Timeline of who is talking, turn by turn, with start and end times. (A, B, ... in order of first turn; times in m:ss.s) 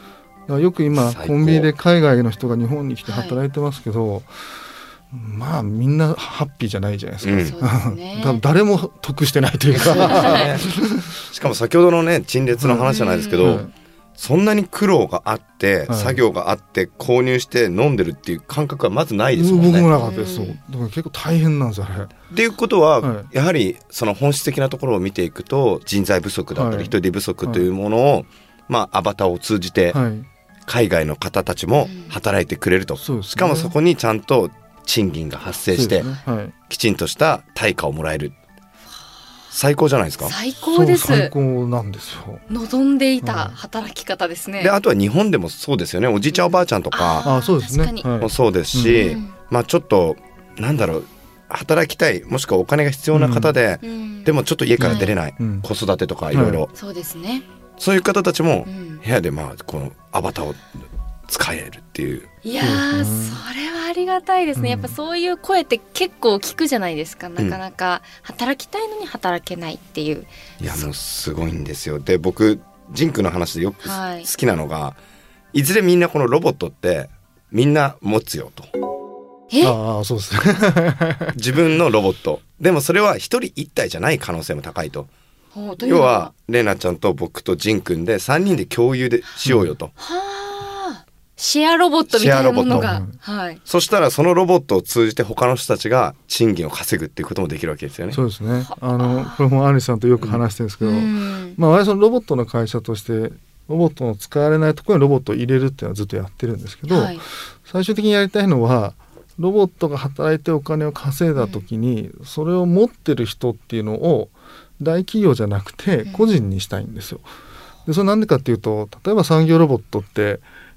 0:00.5-0:04.5 A
0:00.9-0:01.7 B
0:03.0-0:03.4 C
0:05.1-0:11.2 A
0:07.2-0:07.6 B
0:07.3-0:08.4 C
0:09.8-0:10.7 B
0:09.8-0:10.5 C
0:11.3-0:13.6 B
0:12.6-0:13.7 A
0:12.9-0:13.6 C
0:14.2-0:19.9 B
0:15.9-0:16.2 A
0:19.3-0:22.1 A
0:19.9-0:20.6 C
0:22.3-0:30.0 B
0:23.0-0:23.3 A
0:26.5-0:27.7 A
0:29.9-0:30.3 A
0:30.7-0:36.1 B
0:31.8-0:32.1 C
0:33.0-0:33.7 A
0:35.7-0:36.5 A
0:36.7-0:38.3 B
0:39.5-0:40.3 B
0:40.2-0:41.3 C
0:40.6-0:42.4 A
0:42.5-0:44.8 C
0:43.2-0:43.6 A
0:44.6-0:47.2 B
0:46.3-0:48.1 C
0:47.2-0:49.1 A
0:48.2-0:56.7 B
0:48.9-0:49.3 C
0:53.1-0:53.6 A
0:53.8-0:55.1 C
0:54.8-0:55.7 A
0:56.3-0:56.6 A
0:56.7-0:57.4 C
0:57.8-1:00.6 B
0:58.6-0:59.0 C
1:01.3-1:02.3 B
1:02.4-1:10.9 C
1:02.6-1:03.4 A
1:04.6-1:05.0 A
1:10.6-1:15.0 B
1:13.8-1:14.3 C
1:15.5-1:18.7 B
1:19.5-1:19.8 C
1:19.6-1:21.3 A
1:21.3-1:25.1 B
1:25.5-1:26.3 C
1:25.8-1:29.9 B
1:29.4-1:29.7 A
1:30.0-1:33.6 C
1:32.1-1:33.0 B
1:32.7-1:33.1 A
1:33.6-1:38.2 B
1:38.1-1:57.2 A
1:38.6-1:39.4 C
1:40.8-1:41.6 C
1:46.9-1:47.2 C
1:51.4-1:51.6 C
1:56.0-1:56.4 C
1:57.8-2:00.4 A